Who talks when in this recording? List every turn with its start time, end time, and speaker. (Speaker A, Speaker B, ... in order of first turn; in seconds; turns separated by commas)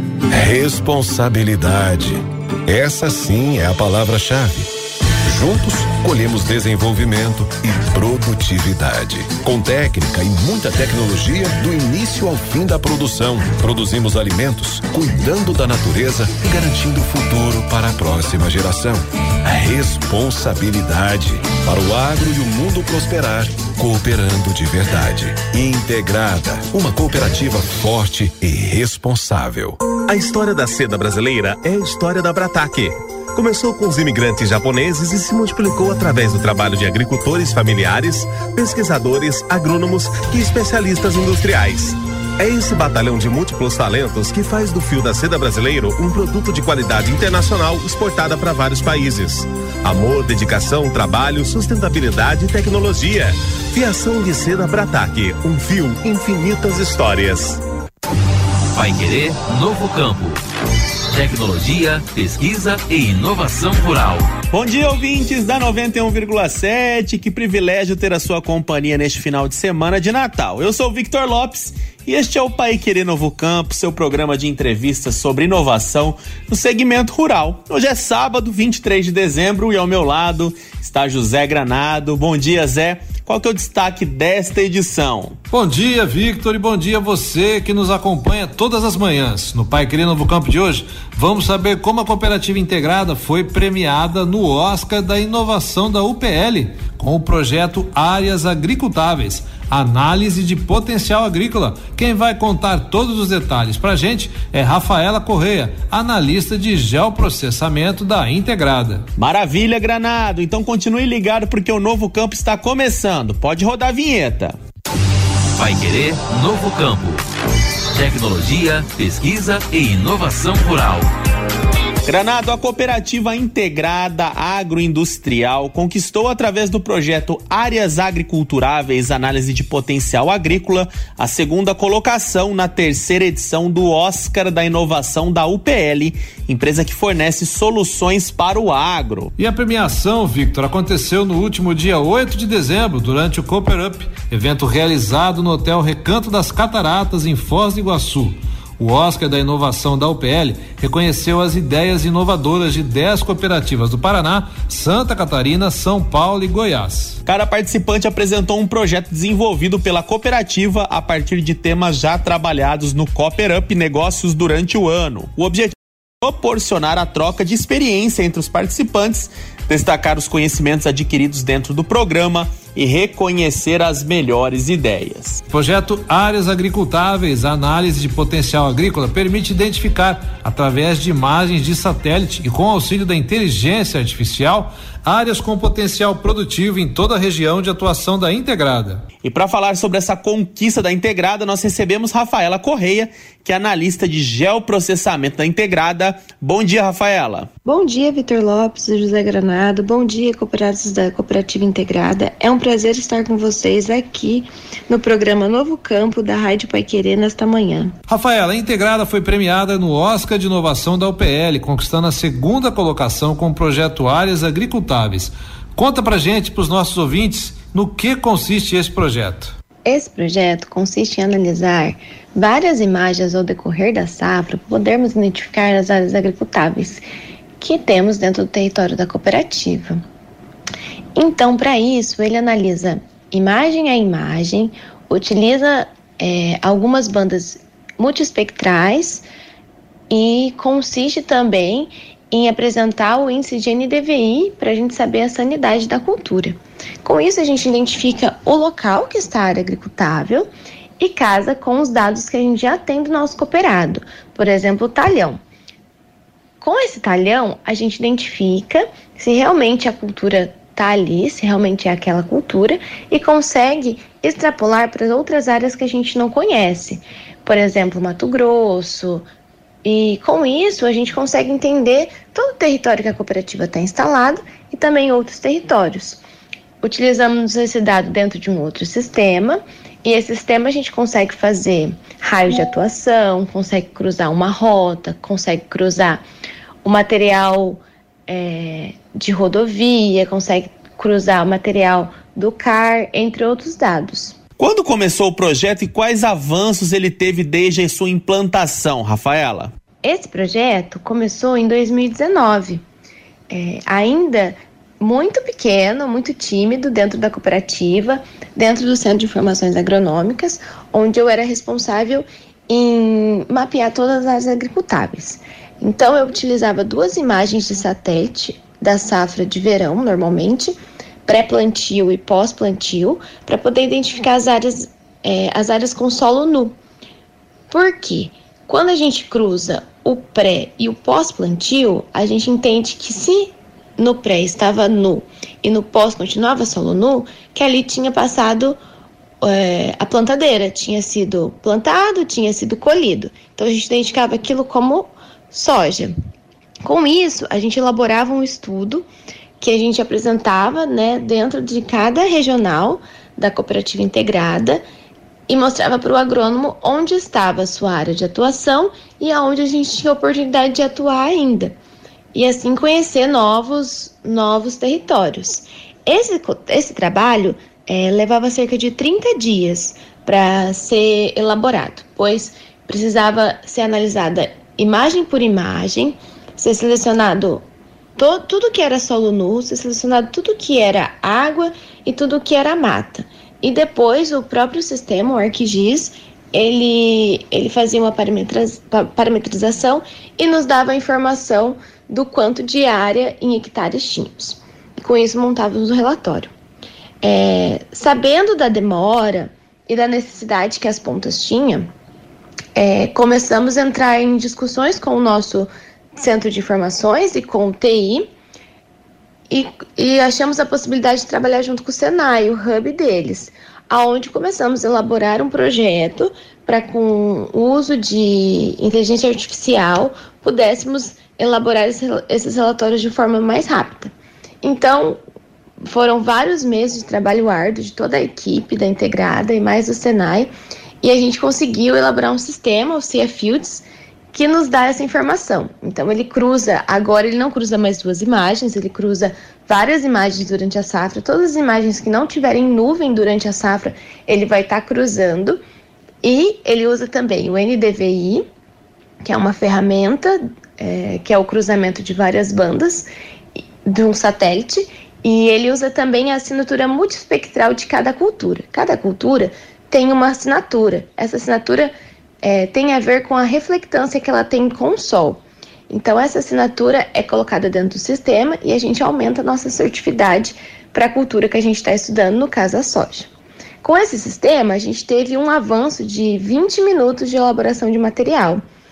Speaker A: 0.3-4.7, Speaker A: 5.3-29.8, Speaker B: 30.1-57.6, Speaker C: 58.8-60.4, Speaker C: 61.1-64.3, Speaker D: 64.5-85.4, Speaker E: 85.5-109.0, Speaker D: 109.2-114.6, Speaker C: 115.6-117.2, Speaker C: 117.9-121.1, Speaker D: 122.1-139.3, Speaker E: 139.4-157.2, Speaker D: 157.3-175.4, Speaker E: 175.5-189.0, Speaker D: 189.2-197.5, Speaker F: 197.6-207.9, Speaker E: 208.1-219.5, Speaker F: 219.8-227.0, Speaker F: 227.6-230.0, Speaker F: 231.2-239.3, Speaker F: 240.1-255.4, Speaker F: 256.6-269.2, Speaker F: 269.8-276.2, Speaker F: 276.8-286.2, Speaker F: 286.8-294.4, Speaker D: 294.6-299.7, Speaker F: 300.0-302.8, Speaker F: 303.5-320.7, Speaker F: 321.3-326.8, Speaker F: 327.7-338.8, Speaker F: 339.4-346.1, Speaker F: 346.8-349.1, Speaker F: 349.6-354.8, Speaker F: 355.5-361.7, Speaker F: 362.3-377.6, Speaker F: 378.2-396.5, Speaker F: 397.2-401.9, Speaker F: 402.8-408.3, Speaker F: 409.5-424.1, Speaker F: 424.6-425.2, Speaker F: 425.8-430.5, Speaker F: 431.0-445.6, Speaker F: 446.2-448.4, Speaker F: 449.2-453.1, Speaker F: 453.9-473.3, Speaker F: 473.8-478.6